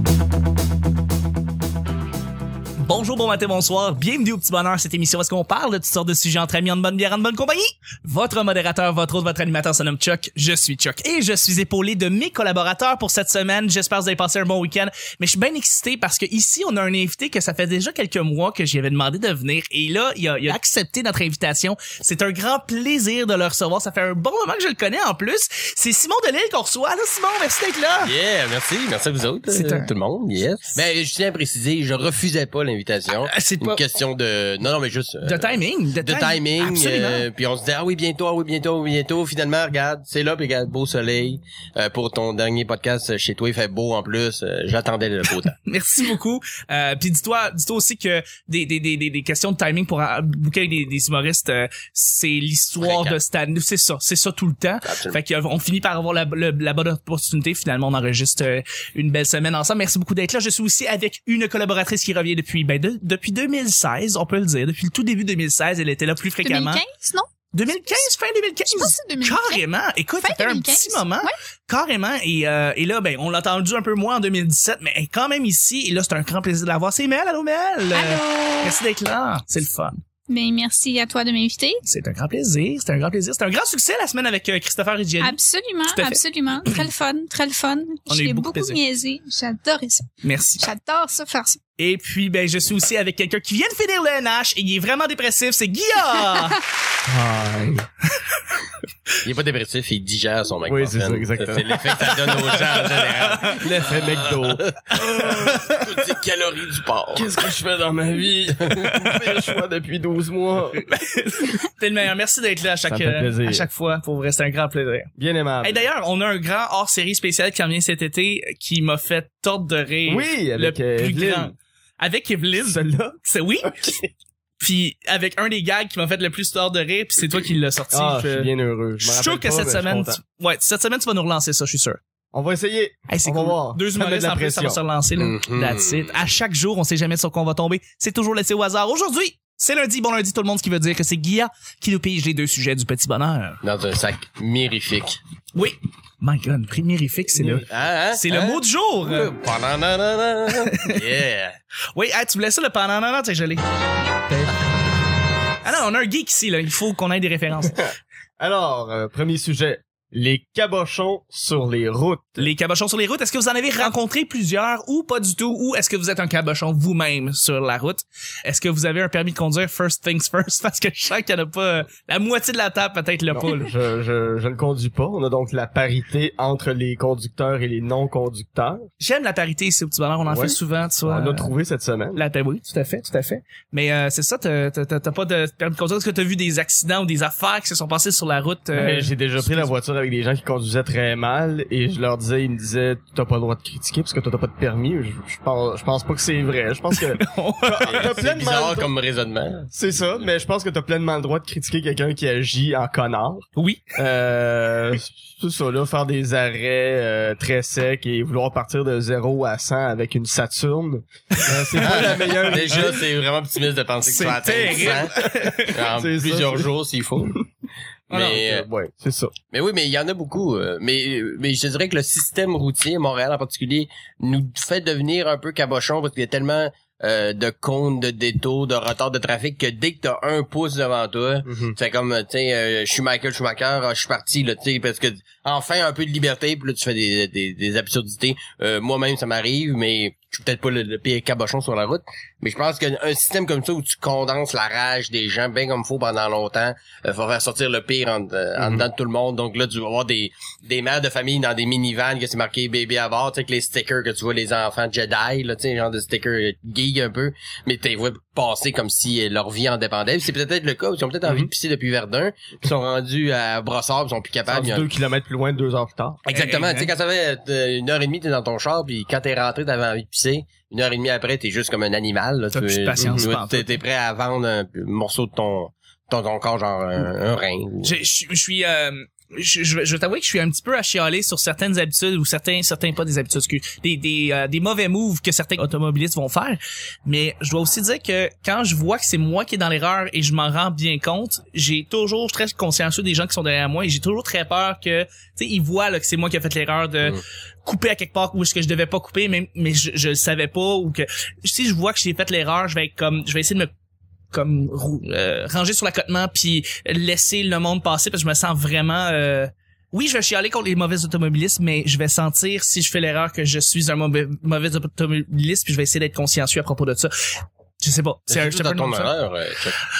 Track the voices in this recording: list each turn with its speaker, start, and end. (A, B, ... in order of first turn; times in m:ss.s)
0:02.8-0:28.1 A
0:28.0-0:45.6 B
0:29.5-0:29.9 A
0:33.3-0:33.8 A
0:35.2-0:37.3 A
0:45.6-1:06.8 A
0:52.8-0:53.2 B
0:54.8-0:55.2 B
1:06.4-1:07.3 C
1:07.5-1:20.0 A
1:08.7-1:09.6 C
1:10.2-1:11.3 C
1:17.9-1:18.8 C
1:20.3-1:21.8 C
1:21.8-1:25.4 A
1:25.2-1:30.1 C
1:25.9-1:26.9 A
1:28.1-1:28.8 A
1:30.2-1:30.7 A
1:30.6-1:31.6 C
1:31.8-1:36.6 A
1:37.1-1:37.9 D
1:39.2-1:47.3 B
1:40.7-1:42.8 D
1:43.0-1:43.6 A
1:43.4-1:45.7 D
1:47.2-1:50.8 D
1:48.6-1:48.9 B
1:48.9-1:49.1 A
1:50.8-2:04.0 A
1:52.9-1:53.7 D
1:55.2-1:55.8 D
2:00.1-2:01.5 D
2:02.6-2:04.0 D
2:04.6-2:12.0 A
2:07.9-2:10.2 D
2:12.3-2:14.8 D
2:13.1-2:23.6 A
2:15.2-2:16.1 B
2:23.6-2:25.2 B
2:25.6-2:29.3 A
2:27.4-2:27.6 D
2:27.6-2:31.6 B
2:30.7-2:31.0 A
2:32.0-2:33.6 A
2:35.6-2:37.9 A
2:37.7-2:42.5 D
2:42.4-2:53.7 A
2:53.3-2:58.9 D
2:59.0-3:01.5 A
3:00.3-3:02.2 D
3:02.1-3:09.7 A
3:08.8-3:18.9 D
3:17.0-3:18.2 A
3:17.9-3:19.7 B
3:19.7-3:33.1 D
3:23.6-3:23.8 A
3:31.4-3:32.0 A
3:31.8-3:37.4 B
3:34.0-3:35.8 A
3:35.0-3:36.7 D
3:38.1-3:38.7 B
3:38.1-3:38.4 A
3:38.2-3:39.4 D
3:39.5-4:24.9 B
3:51.5-3:51.7 D
4:08.6-4:08.9 D
4:24.5-4:26.2 D
4:26.3-4:38.0 B
4:26.3-4:26.9 A
4:32.5-4:33.8 A
4:37.8-5:03.7 A
5:04.3-5:19.1 A
5:18.3-5:19.8 B